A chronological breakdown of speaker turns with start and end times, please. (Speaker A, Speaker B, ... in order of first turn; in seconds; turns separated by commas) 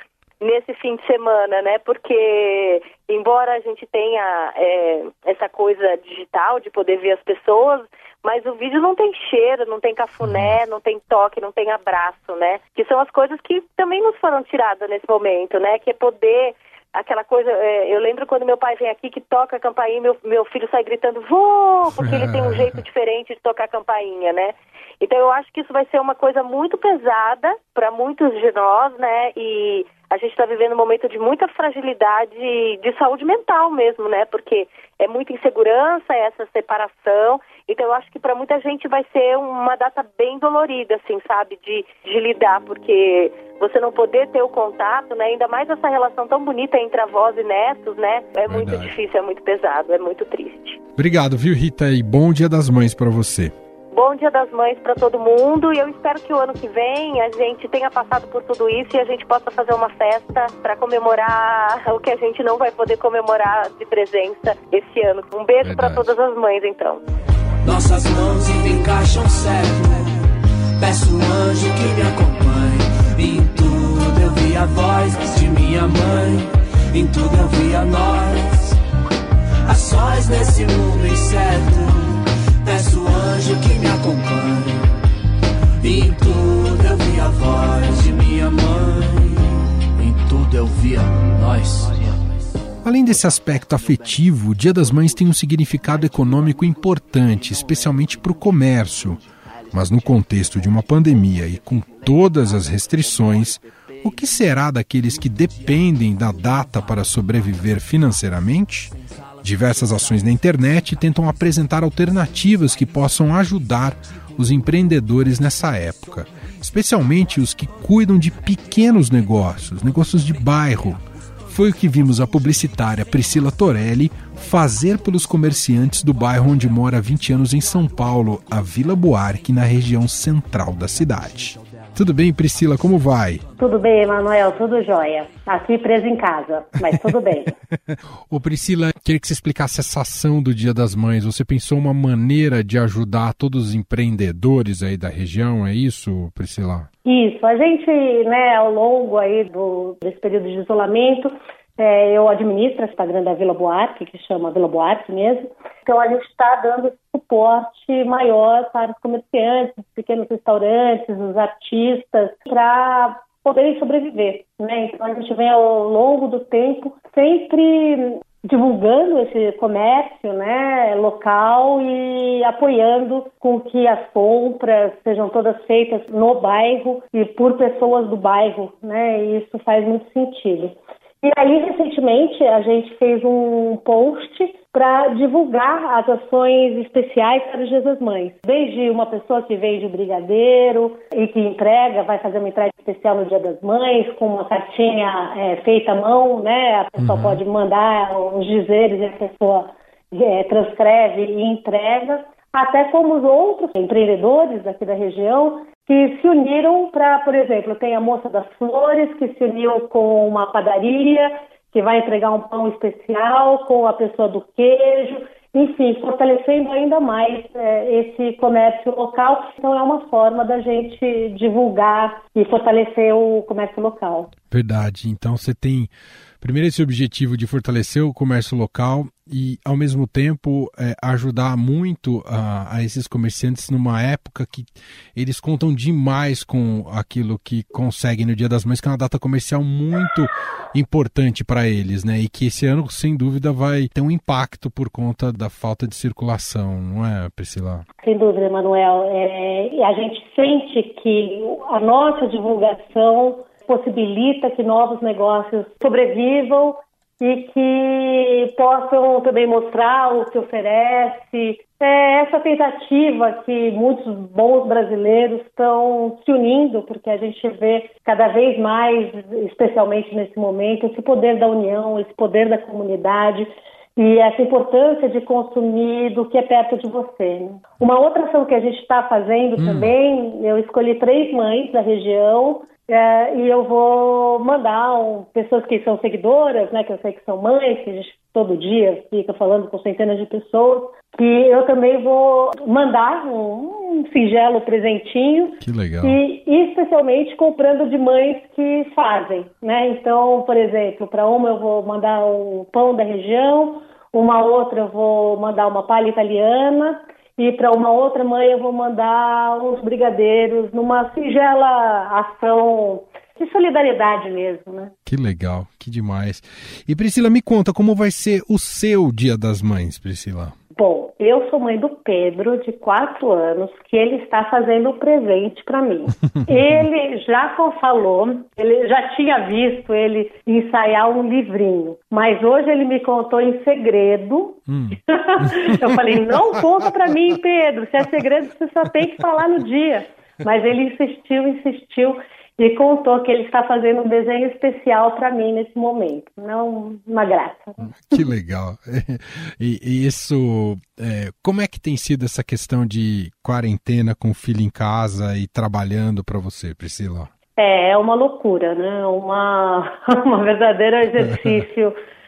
Speaker A: 0.4-50.8, Speaker B: 10.2-10.5, Speaker B: 22.0-22.8, Speaker B: 48.5-48.9, Speaker B: 51.0-53.5, Speaker A: 53.9-67.0, Speaker B: 65.6-66.1, Speaker C: 67.6-70.2, Speaker C: 70.8-78.8, Speaker C: 79.7-84.9, Speaker C: 85.8-92.2, Speaker B: 92.8-133.4, Speaker D: 133.6-137.5, Speaker B: 137.9-146.9, Speaker D: 147.1-224.3, Speaker B: 197.0-197.4, Speaker B: 224.5-225.9, Speaker B: 226.4-247.9, Speaker D: 248.0-314.9, Speaker B: 279.6-279.9, Speaker B: 295.6-296.2, Speaker B: 315.1-320.5, Speaker D: 320.8-347.9, Speaker B: 326.5-326.8, Speaker B: 334.7-336.0, Speaker B: 347.9-357.3, Speaker D: 357.6-361.9